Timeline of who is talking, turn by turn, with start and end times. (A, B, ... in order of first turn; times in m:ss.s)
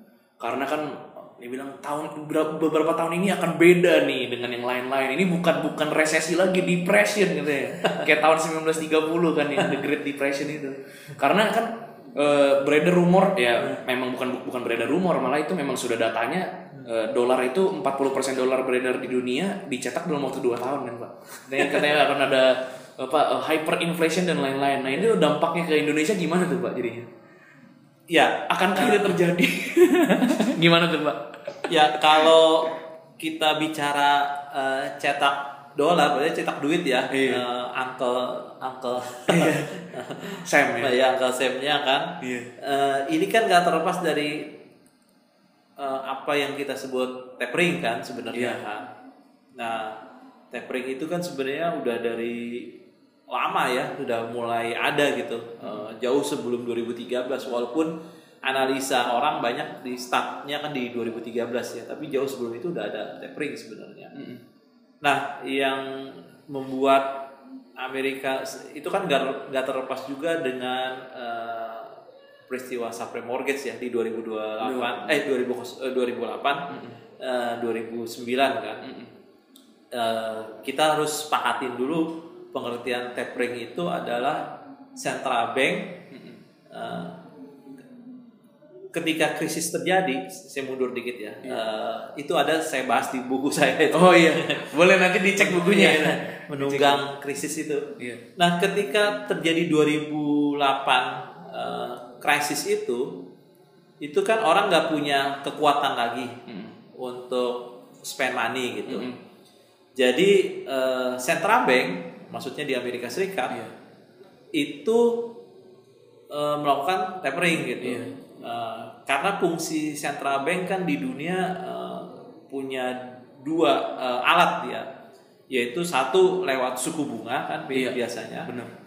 0:00.4-0:27.1 A
0:07.8-0:08.1 B
0:21.6-0:21.9 B
0:28.1-0:29.2 B
0:28.5-0:32.3 A
0:31.7-0:44.5 B
0:37.1-0:37.4 A
0:39.3-0:39.7 A
0:40.4-0:40.9 A
0:42.2-0:42.5 A
0:45.8-0:48.9 B
0:48.3-0:48.6 A
0:49.6-0:50.0 B
0:50.5-0:52.7 B
0:53.3-0:57.9 B
0:55.6-0:55.9 A
0:58.4-1:04.2 B
1:04.1-1:04.4 A
1:05.0-1:07.2 B
1:07.8-1:16.6 B
1:14.6-1:15.1 A
1:16.7-1:17.0 A
1:17.2-1:18.8 B
1:18.8-1:19.1 A
1:19.9-1:26.0 B
1:26.1-1:26.4 A
1:26.7-1:27.2 B
1:28.9-1:34.7 B
1:33.9-1:37.0 A
1:35.4-1:43.2 B
1:44.0-1:46.4 B
1:46.5-1:46.8 A
1:47.0-1:49.1 B
1:48.9-1:49.2 A
1:50.0-1:53.6 B
1:54.6-1:55.3 B
1:56.3-2:04.9 B
1:57.8-1:58.1 A
2:05.5-2:08.5 B
2:07.7-2:08.7 A